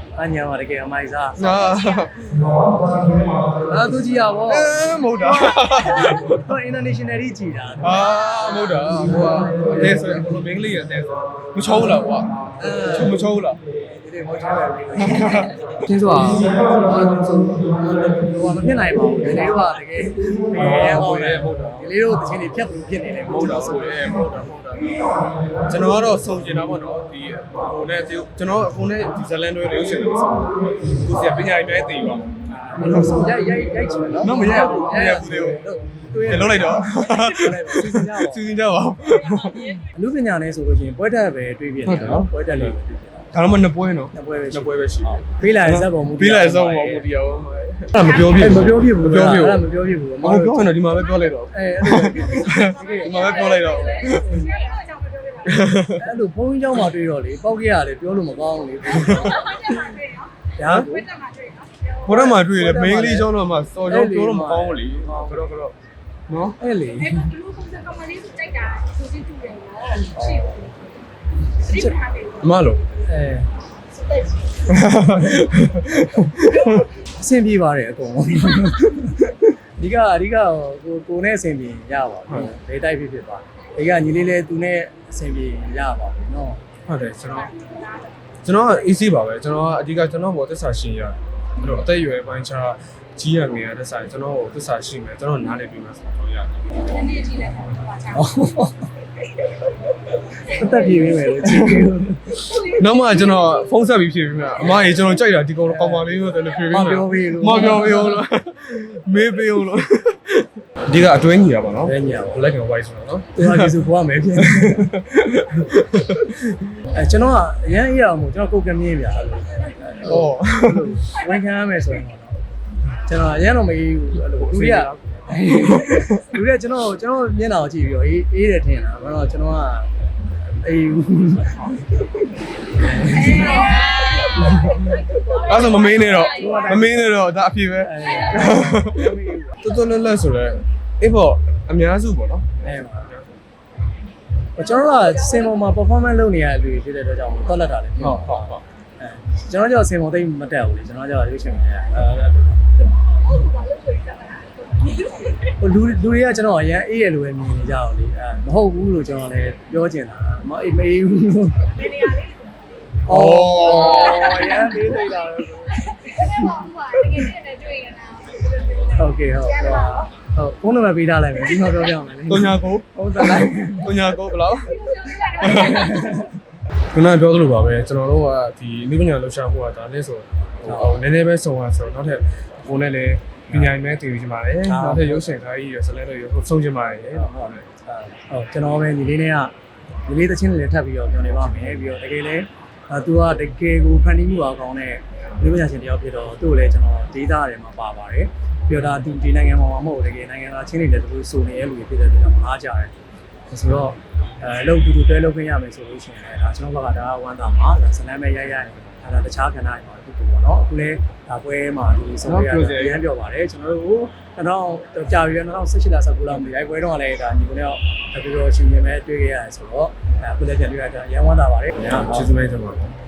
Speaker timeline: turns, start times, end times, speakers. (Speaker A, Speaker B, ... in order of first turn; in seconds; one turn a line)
Speaker A: 0.1-1.4
Speaker B: 1.4-3.7
Speaker A: 3.6-8.1
Speaker B: 4.4-6.5
Speaker B: 7.8-13.6
Speaker A: 8.8-10.0
Speaker A: 12.6-13.2
Speaker A: 13.8-24.3
Speaker B: 15.0-15.7
Speaker B: 20.5-21.9
Speaker B: 23.2-32.3
Speaker A: 32.5-38.4
Speaker B: 32.8-33.1
Speaker B: 34.2-35.6
Speaker B: 36.2-39.8
Speaker A: 39.9-43.4
Speaker B: 41.8-42.8
Speaker B: 43.3-54.5
Speaker A: 44.1-47.1
Speaker A: 48.1-50.9
Speaker A: 51.5-54.5
Speaker C: 52.9-55.5
Speaker B: 55.4-56.1
Speaker A: 55.9-60.0
Speaker B: 58.9-59.4
Speaker C: 59.4-60.3
Speaker A: 60.5-61.1
Speaker B: 60.6-60.9
Speaker C: 61.0-61.9
Speaker A: 62.0-63.3
Speaker B: 62.0-65.7
Speaker A: 63.9-65.4
Speaker B: 66.3-66.6
Speaker A: 66.6-67.3
Speaker C: 67.1-70.2
Speaker A: 70.0-70.7
Speaker A: 71.6-72.0
Speaker C: 71.8-72.3
Speaker B: 72.4-72.8
Speaker A: 73.0-73.5
Speaker B: 74.6-76.9
Speaker A: 76.9-86.6
Speaker B: 82.3-82.5
Speaker B: 86.9-87.6
Speaker C: 87.5-88.1
Speaker B: 88.4-96.7
Speaker C: 96.9-98.1
Speaker A: 98.1-98.8
Speaker A: 100.3-102.5
Speaker B: 101.4-101.9
Speaker B: 102.5-113.8
Speaker A: 105.7-108.2
Speaker A: 111.8-112.5
Speaker A: 113.3-114.9
Speaker B: 114.3-116.6
Speaker A: 116.9-122.4
Speaker B: 120.0-121.0
Speaker A: 123.0-129.9
Speaker B: 124.2-126.2
Speaker A: 130.4-134.6
Speaker C: 133.3-136.6
Speaker B: 135.4-143.4
Speaker A: 136.2-137.0
Speaker A: 137.8-139.6
Speaker A: 142.6-143.1
Speaker A: 144.6-153.0
Speaker B: 148.0-148.6
Speaker C: 153.3-155.1
Speaker A: 155.4-162.0
Speaker C: 161.8-162.4
Speaker A: 163.1-167.3
Speaker B: 163.1-164.5
Speaker C: 166.1-168.9
Speaker A: 168.9-173.9
Speaker B: 172.3-175.7
Speaker C: 174.7-176.2
Speaker A: 175.4-176.3
Speaker B: 176.9-187.6
Speaker A: 180.6-181.0
Speaker A: 184.6-185.3
Speaker A: 186.9-189.5
Speaker A: 190.1-202.9
Speaker A: 203.5-222.3
Speaker B: 212.2-213.0
Speaker B: 221.9-222.9